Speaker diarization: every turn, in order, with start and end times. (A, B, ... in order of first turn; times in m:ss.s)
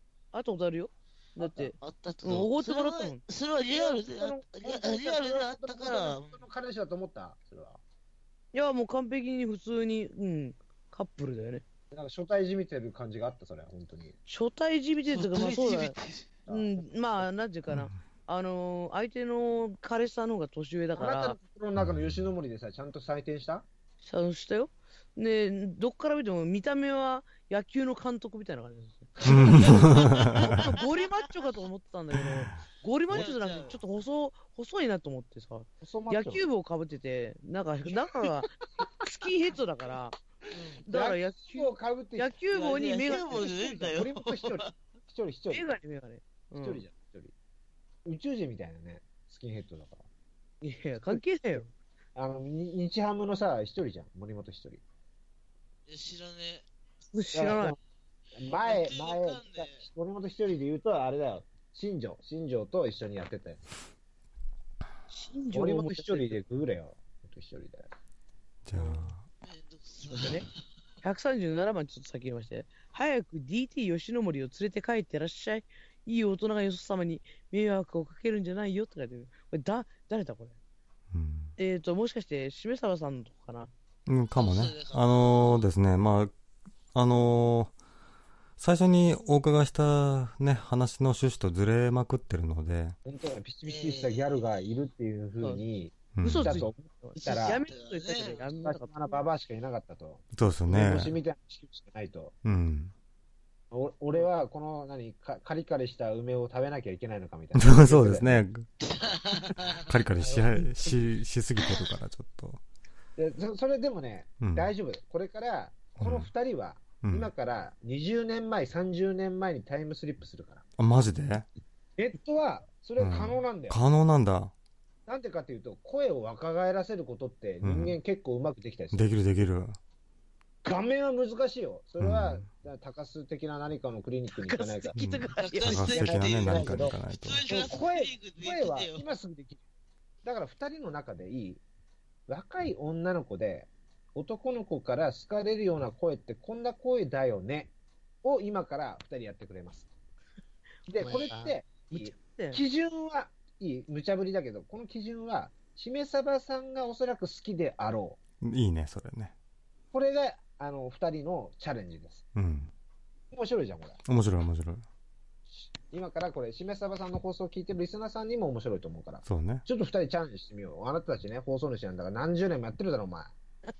0:00.3-0:03.2 A
0:01.4-0:01.7 B
0:01.8-0:06.4 C
0:03.7-0:07.8 B
0:08.5-0:11.6 A
0:11.9-0:14.2 B
0:14.3-0:15.9 A
0:15.1-0:16.3 C
0:16.5-0:17.2 B
0:16.5-0:21.4 A
0:21.0-0:23.7 B
0:21.8-0:22.2 D
0:24.0-0:38.5 A
0:29.2-0:29.9 B
0:29.2-0:30.6 D
0:29.5-0:31.1 C
0:32.2-0:32.5 D
0:33.1-0:33.8 C
0:35.8-0:36.4 B
0:39.0-0:40.2 A
0:40.8-0:43.5 A
0:40.9-0:45.7 B
0:42.5-0:44.7 C
0:45.5-0:46.8 A
0:46.6-0:47.3 B
0:48.1-0:50.1 B
0:50.6-0:51.7 A
0:51.1-0:51.6 B
0:52.2-0:54.8 B
0:55.9-0:56.6 C
0:57.1-0:57.8 A
0:57.3-0:57.8 B
0:58.4-1:03.6 B
0:58.4-0:59.8 C
1:05.1-1:06.4 A
1:05.5-1:07.9 B
1:08.6-1:09.3 D
1:08.8-1:09.0 A
1:09.4-1:10.5 C
1:10.1-1:10.5 A
1:11.0-1:20.6 A
1:21.1-1:21.5 D
1:21.6-1:23.7 A
1:24.1-1:26.3 D
1:24.4-1:25.7 C
1:26.9-1:27.7 D
1:28.6-1:33.0 D
1:33.1-1:37.6 B
1:33.6-1:34.4 C
1:36.2-1:36.6 D
1:36.2-1:39.2 A
1:37.7-1:38.4 C
1:38.4-1:42.4 B
1:40.4-1:41.2 D
1:42.4-1:42.9 D
1:43.7-1:48.4 B
1:47.6-1:48.7 D
1:48.8-1:49.9 C
1:49.8-1:52.6 D
1:53.2-2:00.6 B
1:54.4-1:54.7 D
1:56.0-1:56.3 D
1:57.0-1:57.3 D
2:00.8-2:01.5 D
2:02.0-2:03.8 B
2:03.0-2:04.5 D
2:05.1-2:09.0 B
2:07.6-2:08.0 D
2:08.9-2:09.8 D
2:10.6-2:15.0 B
2:12.0-2:12.5 D
2:14.4-2:15.9 A
2:15.0-2:17.4 D
2:15.4-2:19.0 C
2:15.7-2:17.0 B
2:17.5-2:19.6 B
2:20.2-2:21.6 B
2:22.3-2:29.9 B
2:30.9-2:38.2 B
2:31.0-2:32.6 A
2:38.4-2:39.3 D
2:39.9-2:42.2 B
2:42.4-2:42.7 D
2:43.3-2:44.0 B
2:44.1-2:44.8 D
2:45.5-2:53.4 B
2:49.2-2:49.6 D